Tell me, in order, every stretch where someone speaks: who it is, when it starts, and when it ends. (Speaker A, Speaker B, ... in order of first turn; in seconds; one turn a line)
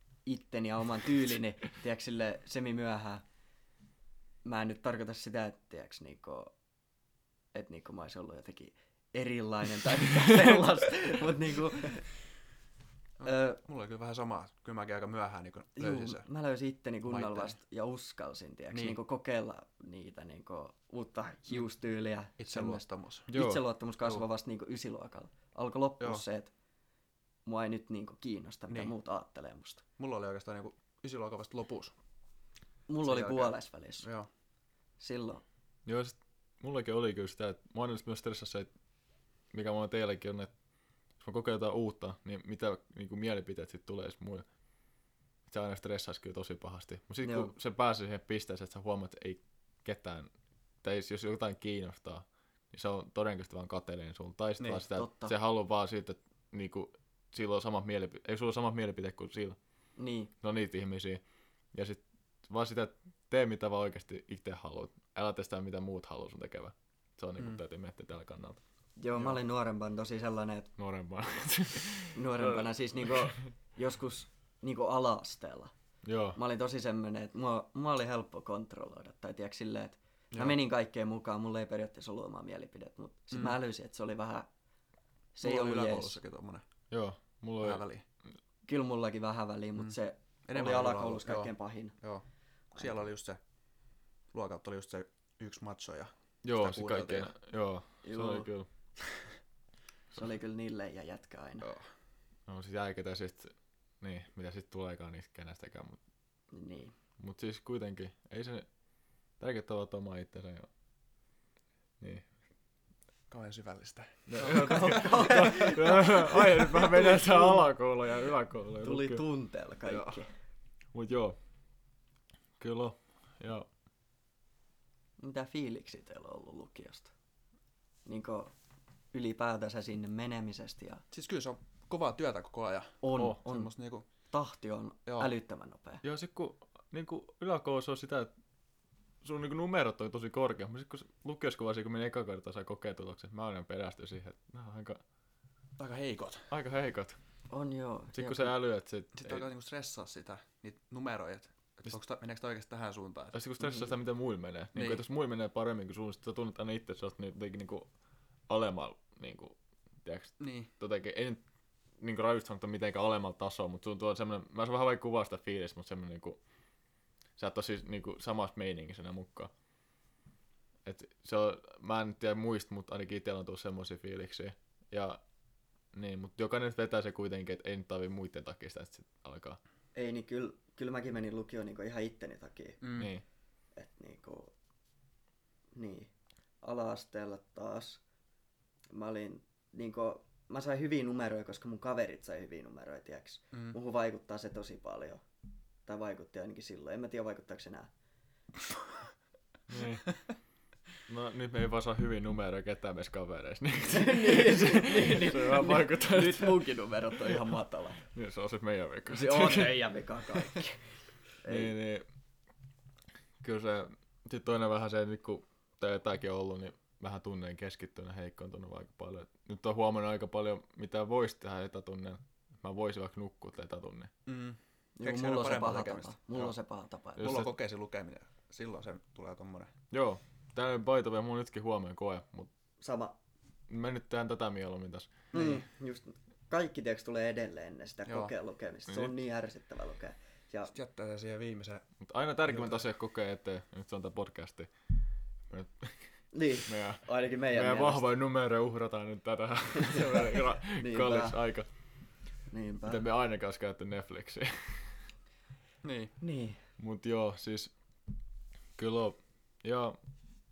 Speaker A: 0.2-3.2
Speaker A: 4.4-6.5
Speaker A: 7.5-12.1
Speaker B: 13.2-16.2
Speaker A: 13.2-13.6
Speaker A: 15.8-26.5
Speaker B: 17.1-17.6
Speaker B: 18.7-19.0
Speaker B: 22.4-23.3
Speaker C: 23.3-23.6
Speaker A: 27.4-29.8
Speaker B: 30.0-31.9
Speaker A: 32.9-34.0
Speaker B: 33.0-34.3
Speaker A: 35.0-35.4
Speaker C: 35.9-38.7
Speaker C: 39.5-40.5
Speaker C: 41.2-44.5
Speaker C: 45.5-50.3
Speaker A: 47.2-47.5
Speaker C: 50.8-59.6
Speaker A: 54.9-55.3
Speaker A: 60.0-60.3
Speaker C: 60.4-61.2
Speaker C: 61.7-68.6
Speaker A: 69.0-70.7
Speaker C: 70.8-73.5
Speaker A: 72.1-75.7
Speaker C: 76.0-76.4
Speaker A: 76.3-84.5
Speaker B: 80.3-80.6
Speaker A: 85.3-86.2
Speaker B: 85.4-86.6
Speaker C: 86.9-87.8
Speaker B: 87.6-88.0
Speaker A: 88.7-92.0
Speaker B: 89.8-93.4
Speaker B: 94.3-97.3
Speaker C: 96.4-98.7
Speaker A: 98.0-98.5
Speaker A: 100.1-101.7
Speaker B: 101.6-101.9
Speaker C: 102.5-106.0
Speaker A: 106.5-106.9
Speaker C: 107.2-108.7
Speaker C: 109.4-110.7
Speaker C: 112.0-112.2
Speaker B: 113.3-115.5
Speaker C: 114.3-119.2
Speaker A: 114.4-117.6
Speaker A: 118.8-120.3
Speaker B: 119.8-120.2
Speaker C: 120.9-121.4
Speaker C: 122.6-123.7
Speaker A: 125.2-127.1
Speaker A: 128.1-128.5
Speaker A: 129.1-131.0
Speaker B: 131.1-134.1
Speaker A: 133.0-133.7
Speaker A: 134.3-136.0
Speaker C: 136.0-138.3
Speaker C: 139.2-145.0
Speaker B: 145.8-146.5
Speaker C: 146.5-147.2
Speaker A: 147.5-148.6
Speaker C: 148.1-149.5
Speaker B: 149.1-153.4
Speaker C: 153.3-157.9
Speaker B: 154.7-155.0
Speaker C: 158.5-161.4
Speaker B: 160.4-160.7
Speaker C: 162.0-166.4
Speaker C: 167.4-169.5
Speaker C: 170.8-175.2
Speaker C: 175.9-179.6
Speaker A: 179.9-182.8
Speaker B: 182.8-183.1
Speaker C: 182.9-183.2
Speaker A: 183.8-184.5
Speaker A: 185.7-186.1
Speaker A: 186.6-188.0
Speaker A: 188.9-195.2
Speaker A: 195.9-197.9
Speaker C: 199.7-200.1
Speaker C: 201.1-206.7
Speaker A: 203.9-208.1
Speaker C: 208.1-209.8
Speaker A: 209.1-210.8
Speaker A: 211.4-211.7
Speaker C: 211.5-212.1
Speaker C: 213.4-224.1
Speaker B: 224.2-226.5
Speaker A: 225.0-227.3
Speaker C: 227.2-227.5
Speaker B: 227.2-229.7
Speaker C: 229.9-232.5
Speaker A: 232.8-233.1
Speaker C: 233.7-235.2
Speaker A: 235.3-240.7
Speaker B: 235.3-235.6
Speaker B: 240.7-241.9
Speaker C: 242.0-244.7
Speaker B: 242.5-242.8
Speaker C: 245.5-246.1
Speaker A: 246.3-248.1
Speaker C: 246.7-251.7
Speaker A: 249.8-251.4
Speaker A: 252.5-253.1
Speaker C: 252.9-255.0
Speaker B: 255.8-256.1
Speaker A: 256.2-256.6
Speaker C: 256.8-257.7
Speaker C: 258.8-260.0